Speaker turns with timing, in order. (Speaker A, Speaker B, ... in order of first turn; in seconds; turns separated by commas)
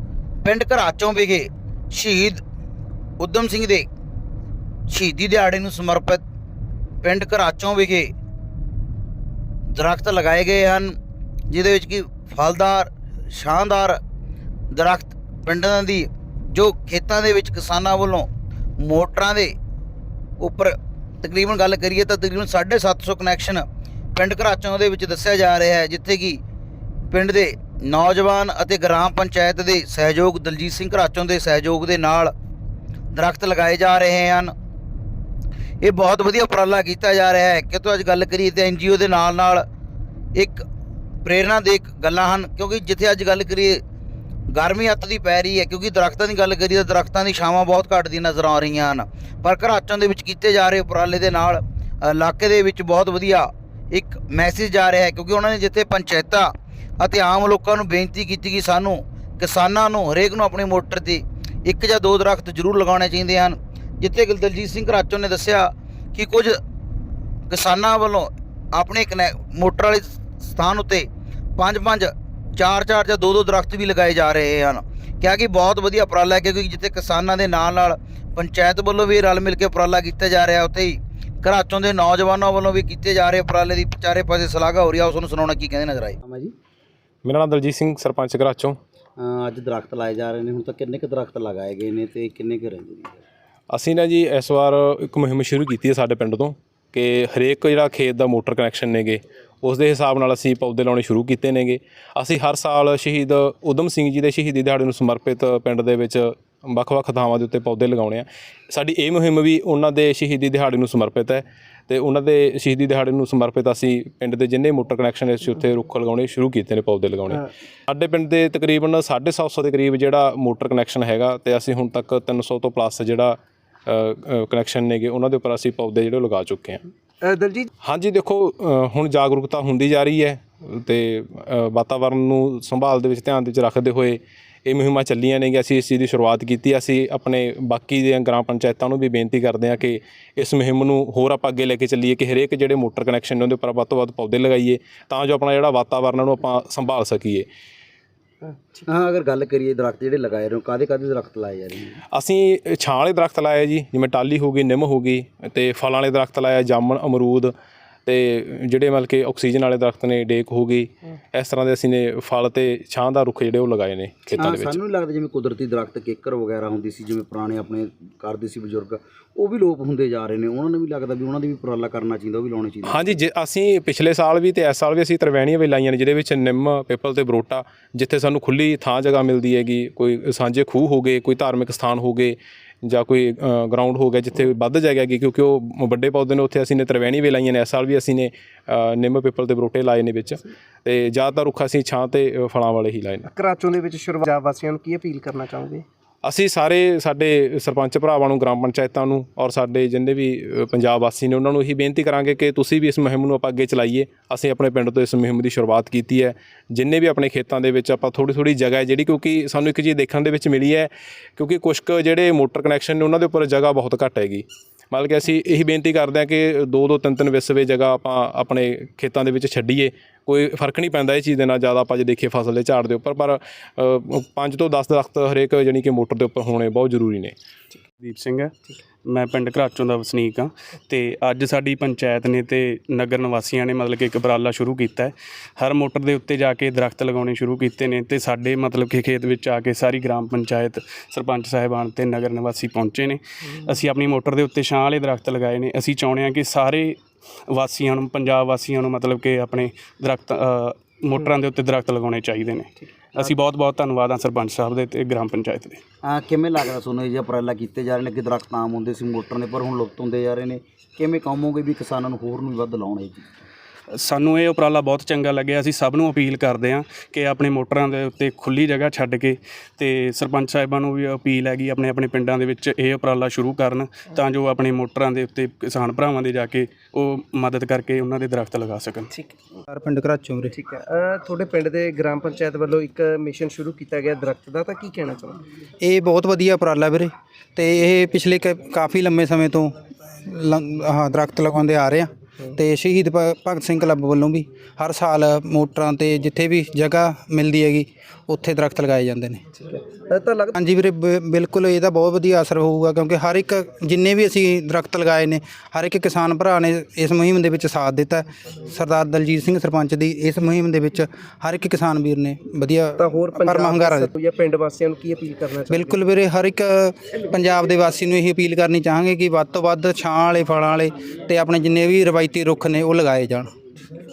Speaker A: 0.4-2.4, Speaker A: 3.2-3.8, Speaker A: 4.9-6.2, Speaker A: 7.0-8.1, Speaker A: 9.8-10.9, Speaker A: 11.5-13.9, Speaker A: 14.7-18.2, Speaker A: 18.8-19.5, Speaker A: 20.4-23.6, Speaker A: 24.1-26.4, Speaker A: 27.1-32.3, Speaker A: 33.1-34.5, Speaker A: 35.8-39.6, Speaker A: 40.4-40.6, Speaker A: 41.2-43.8, Speaker A: 44.5-56.5, Speaker A: 57.0-66.5, Speaker A: 67.5-71.1, Speaker A: 71.6-86.2, Speaker B: 86.2-86.5, Speaker C: 87.2-88.8, Speaker B: 89.2-93.2, Speaker C: 93.7-126.8, Speaker D: 127.2-127.7, Speaker C: 127.8-147.5, Speaker B: 148.8-152.0, Speaker C: 152.1-157.5, Speaker C: 158.1-164.8, Speaker B: 164.4-173.1, Speaker C: 172.8-193.3, Speaker D: 193.3-195.8, Speaker C: 196.2-227.3, Speaker E: 228.0-247.0, Speaker E: 247.5-255.8, Speaker B: 256.0-263.3, Speaker E: 264.0-279.1, Speaker F: 279.7-280.5, Speaker D: 280.5-285.4, Speaker F: 285.8-289.7, Speaker F: 290.2-299.4, Speaker D: 299.6-300.6, Speaker F: 300.6-314.1, Speaker D: 313.0-316.1, Speaker F: 315.7-323.5